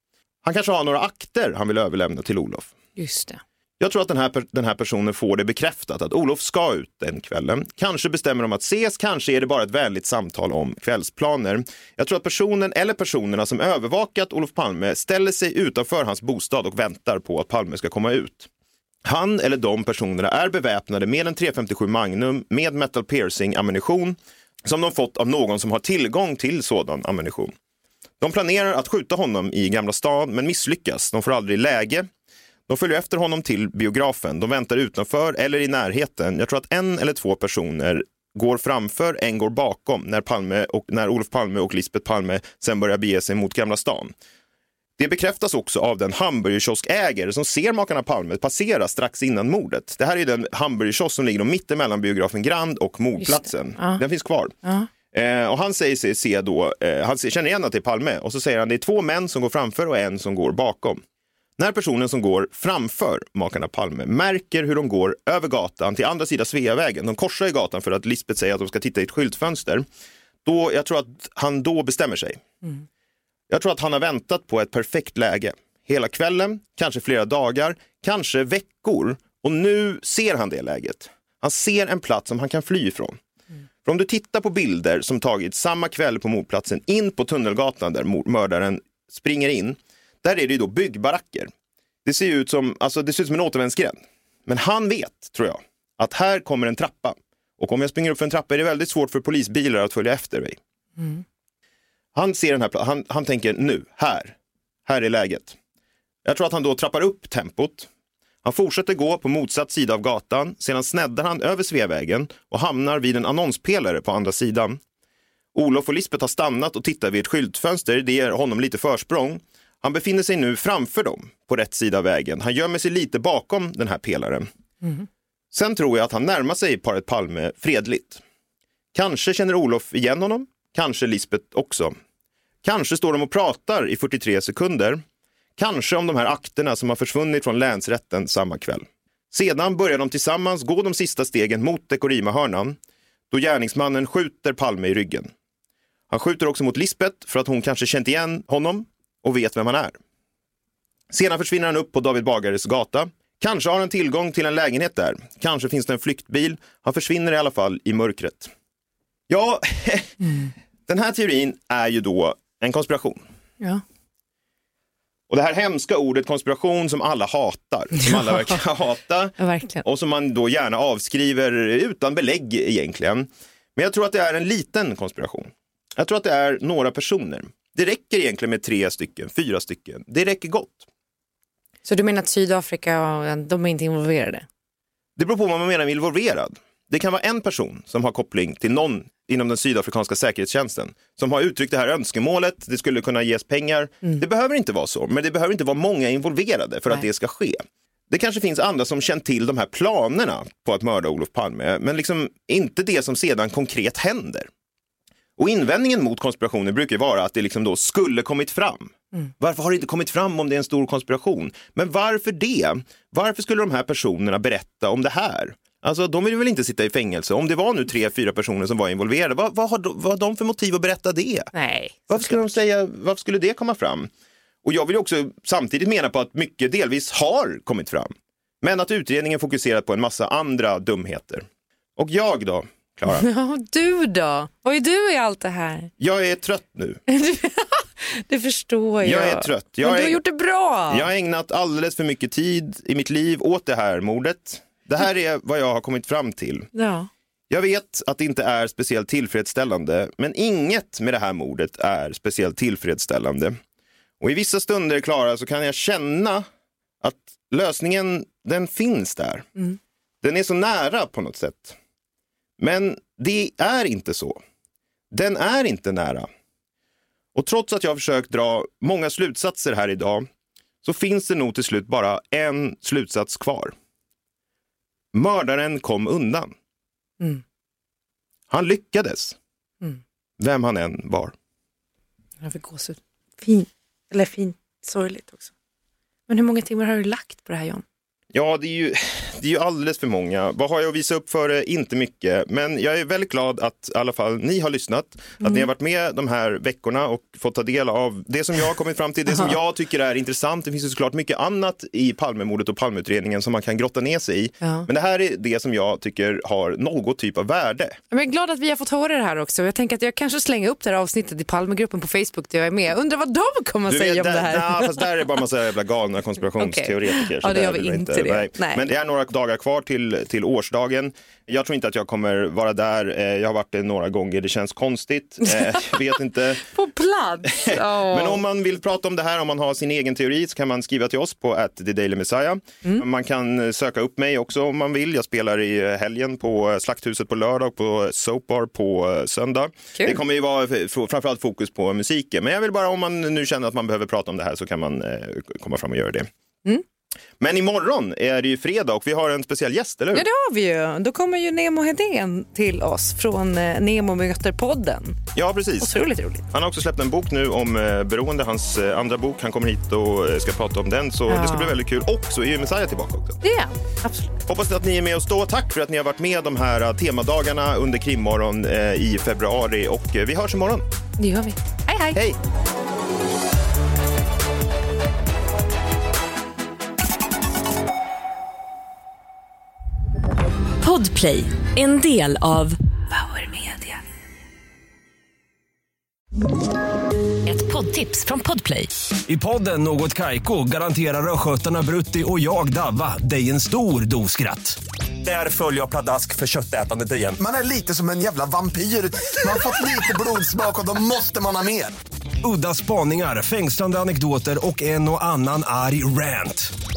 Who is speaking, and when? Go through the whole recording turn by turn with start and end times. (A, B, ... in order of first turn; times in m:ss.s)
0:00.4-0:02.7 A
0:03.0-0:03.4 B
0:03.8-0:18.5 A
0:19.0-0:27.5 A
0:28.2-0:32.1 A
0:32.7-0:44.1 A
0:45.0-0:54.6 A
0:53.2-0:54.0 B
0:55.1-1:01.0 A
1:01.6-1:09.9 A
1:10.4-1:12.4 A
1:13.5-1:23.2 A
1:23.8-1:31.5 A
1:32.0-1:40.6 A
1:42.1-1:44.4 A
1:44.9-1:45.6 A
1:46.2-1:47.9 A
1:48.4-1:54.8 A
1:55.5-2:04.5 A
2:05.5-2:08.2 A
2:08.9-2:12.0 A
2:12.6-2:15.0 A
2:15.6-2:22.8 A
2:23.3-2:25.3 A
2:26.1-2:30.0 A
2:31.1-2:38.5 A
2:39.3-2:40.3 A
2:40.9-2:43.2 A
2:45.3-3:00.9 A
2:48.0-2:48.6 B
2:49.4-2:49.8 B
3:01.8-3:04.4 B
3:05.2-3:24.5 A
3:25.4-3:41.5 A
3:41.5-3:42.5 B
3:42.1-3:44.1 A
3:44.6-3:51.4 A
3:52.0-3:53.3 A
3:53.1-3:55.9 B
3:56.0-3:57.0 A
3:57.1-4:01.0 B
3:59.0-4:00.2 A
4:00.9-4:06.7 A
4:06.7-4:07.1 B
4:07.5-4:13.6 A
4:14.2-4:16.5 A
4:17.0-4:19.6 A
4:20.2-4:21.8 A
4:22.6-4:24.4 A
4:25.1-4:26.3 A
4:27.4-4:30.3 A
4:30.8-4:33.7 A
4:35.1-4:36.6 A
4:38.5-4:39.4 A
4:40.4-4:41.3 A
4:42.4-4:45.5 B
4:46.3-4:47.8 B
4:48.3-5:08.0 A
5:04.6-5:04.9 B
5:08.1-5:15.0 B
5:13.9-5:26.6 A
5:16.6-5:18.8 B
5:25.5-5:25.9 B
5:26.6-5:28.4 B
5:27.6-5:46.3 A
5:47.4-5:50.3 A
5:50.1-5:55.2 B
5:55.3-5:55.9 A
5:55.8-5:56.5 B
5:56.5-6:03.4 A
6:01.3-6:01.7 B
6:03.4-6:04.4 B
6:04.4-6:10.9 A
6:11.2-6:12.2 B
6:20.8-6:24.0 C
6:27.4-6:28.9 C
6:29.3-6:34.8 D
6:36.2-6:37.3 D
6:37.4-6:42.0 E
6:42.4-6:46.7 D